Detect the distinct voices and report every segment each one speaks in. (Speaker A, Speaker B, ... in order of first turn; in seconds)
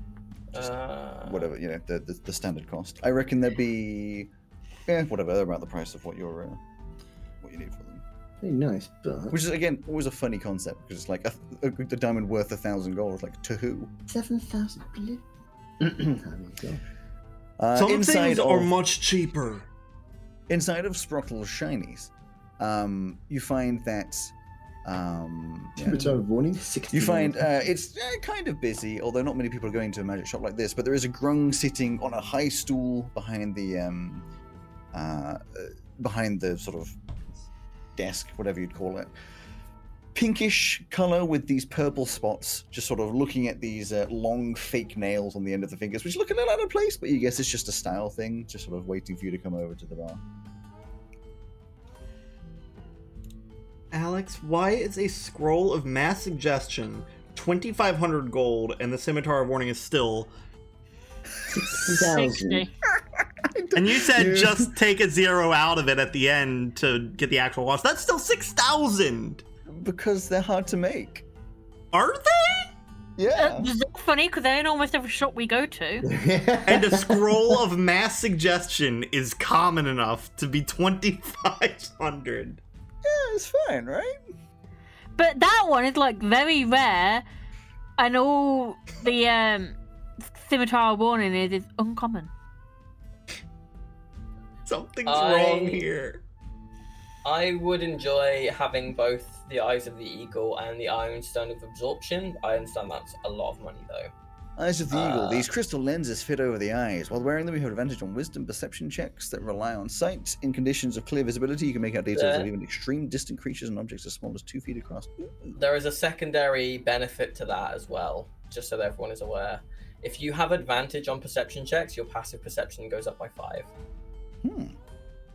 Speaker A: 0.5-1.5, 95.0-95.8, 97.2-104.1, 104.9-105.5, 112.1-112.5, 115.5-123.7
Speaker B: 1.2-4.3, 4.8-6.6, 7.4-8.0, 9.3-13.9, 17.6-18.7, 20.5-24.3, 24.8-26.2, 26.9-34.2, 34.9-37.0, 38.0-39.1, 40.1-50.2, 63.4-64.7, 69.7-71.2, 73.2-73.7, 83.0-84.2, 104.6-115.1, 124.4-124.8
Speaker C: 8.4-9.4, 14.1-15.2, 15.8-16.8, 25.8-27.7, 61.5-62.7, 76.0-77.4
Speaker D: 17.7-19.6, 53.9-60.3, 63.7-69.4, 71.9-72.7, 76.6-82.6, 94.7-96.2
Speaker E: 61.9-62.7, 73.3-76.1, 85.2-87.2, 88.0-89.8, 90.3-92.3